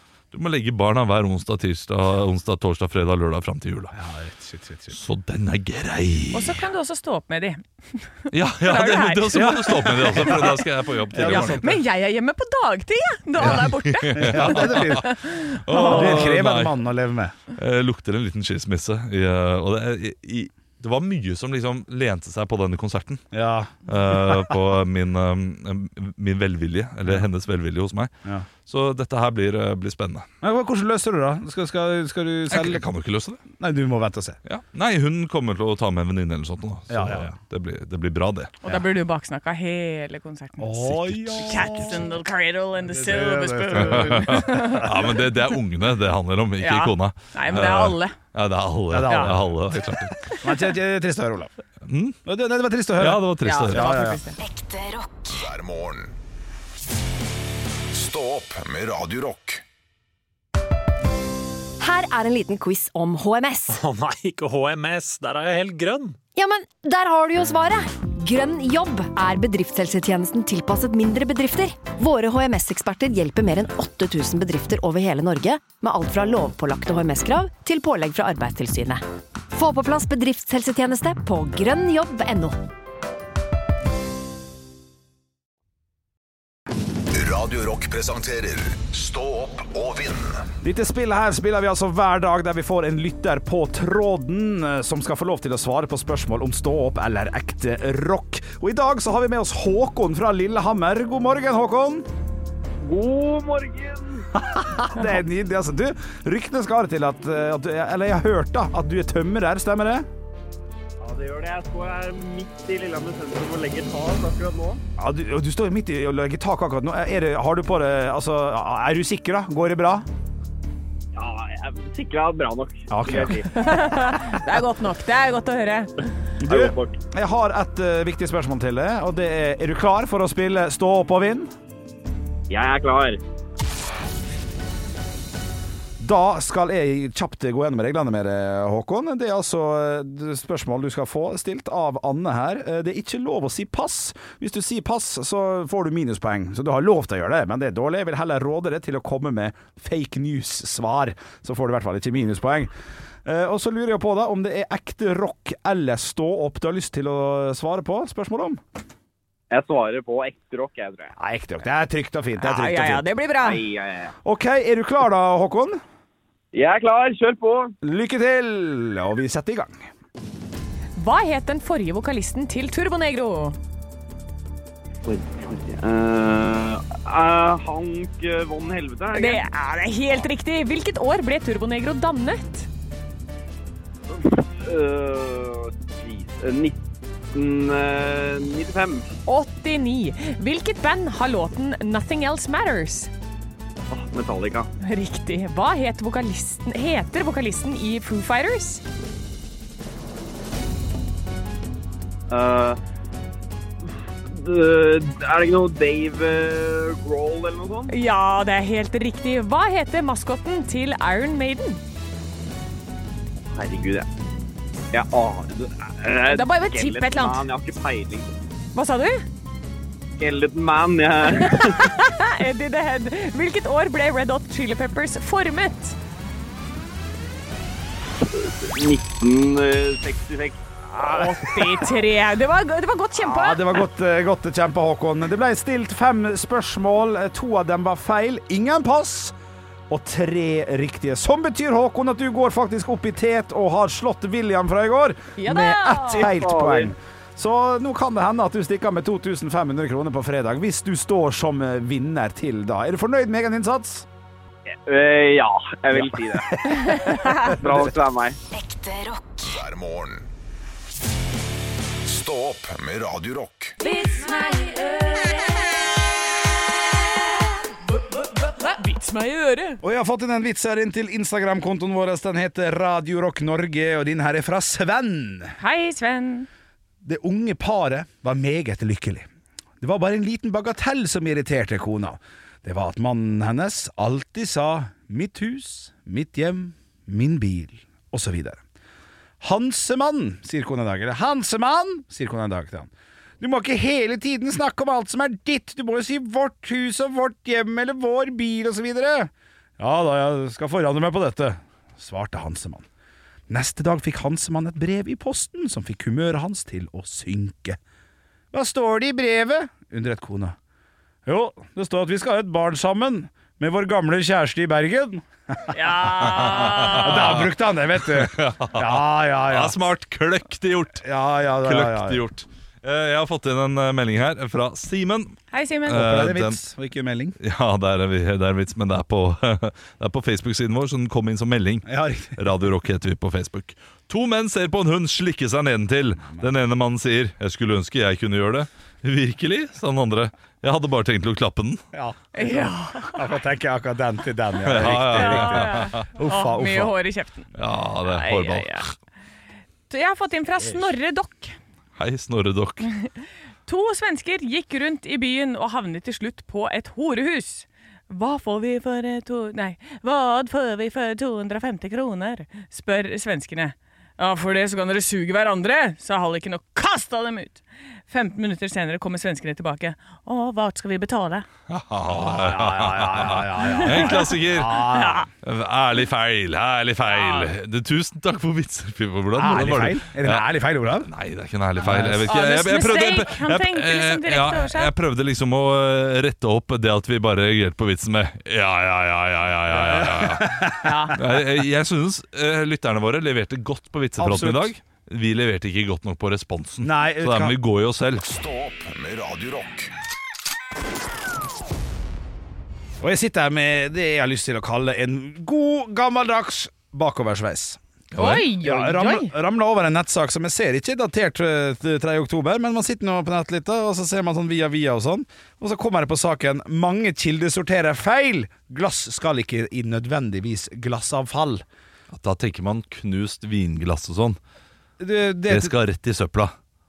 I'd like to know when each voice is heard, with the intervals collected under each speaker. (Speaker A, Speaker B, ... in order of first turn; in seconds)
Speaker A: 0.3-4.0, 4.9-6.6, 8.3-11.7, 13.4-16.8, 17.5-23.2, 23.9-28.1, 28.6-30.3, 32.5-33.4, 34.5-38.5, 40.9-41.9, 43.8-50.2, 51.9-52.2, 53.0-54.0, 316.3-321.1, 321.6-326.6, 327.4-341.8, 344.6-346.1, 347.6-348.9, 351.9-352.9, 371.7-374.8, 375.4-398.2, 408.1-408.5, 422.1-424.4, 425.5-426.5
Speaker B: 3.9-5.0, 9.3-11.8, 13.4-15.1, 15.8-17.4, 23.3-24.6, 30.4-32.8, 33.6-34.4, 36.9-37.3, 40.6-42.1, 42.8-45.0, 48.9-49.6, 50.4-51.5, 52.2-54.2, 90.6-102.1, 104.3-110.1, 115.0-120.0, 122.9-123.4, 126.4-131.5, 136.0-158.6, 161.2-163.1, 164.2-165.8, 167.8-169.9, 233.2-239.3, 239.9-254.1, 255.9-257.9, 269.8-275.6, 277.0-279.2, 279.8-288.6, 289.4-302.9, 303.5-307.8, 308.5-310.6, 311.2-319.8, 321.0-322.2, 325.9-327.4, 331.9-332.4, 341.9-346.9, 372.1-375.3, 379.3-381.1, 381.8-382.3, 389.7-391.2, 394.2-394.7, 396.8-397.5, 403.0-407.8, 408.6-421.6, 425.0-425.7
Speaker C: 6.3-10.6, 11.2-16.3, 38.6-45.1, 46.6-48.1, 49.1-49.3, 53.4-54.4, 123.4-125.9, 162.4-163.6, 170.9-173.6, 179.1-182.7, 189.2-193.1, 194.8-198.8, 207.9-211.8, 216.3-217.4, 218.7-219.2, 221.3-226.0, 230.9-233.8, 245.4-246.3, 256.9-257.4, 263.8-265.0, 268.1-269.8, 275.6-276.5, 315.7-317.4, 325.5-326.1, 342.3-343.2, 345.1-348.9, 349.9-351.6, 352.8-353.1, 353.6-371.5, 373.6-375.3, 377.1-377.5, 382.2-384.9, 390.8-391.2, 408.2-409.3
Speaker D: 54.4-55.4, 258.5-259.6, 264.3-265.4
Speaker E: 55.3-56.1, 57.9-59.6, 87.1-90.5, 259.4-260.3, 262.0-263.8, 398.2-399.9
Speaker F: 61.8-63.8, 66.3-82.6
Speaker G: 63.7-66.2
Speaker H: 102.8-104.2, 111.0-114.8, 121.1-123.5, 126.5-127.0, 132.5-133.2, 159.5-161.1, 163.4-164.1, 166.5-167.7, 175.0-179.4, 184.1-186.8, 187.3-189.1, 193.9-194.7, 202.3-202.8, 204.2-207.9, 213.5-214.1, 214.9-218.3, 220.2-221.8, 228.3-230.6, 246.2-246.9, 254.8-256.5, 257.4-258.4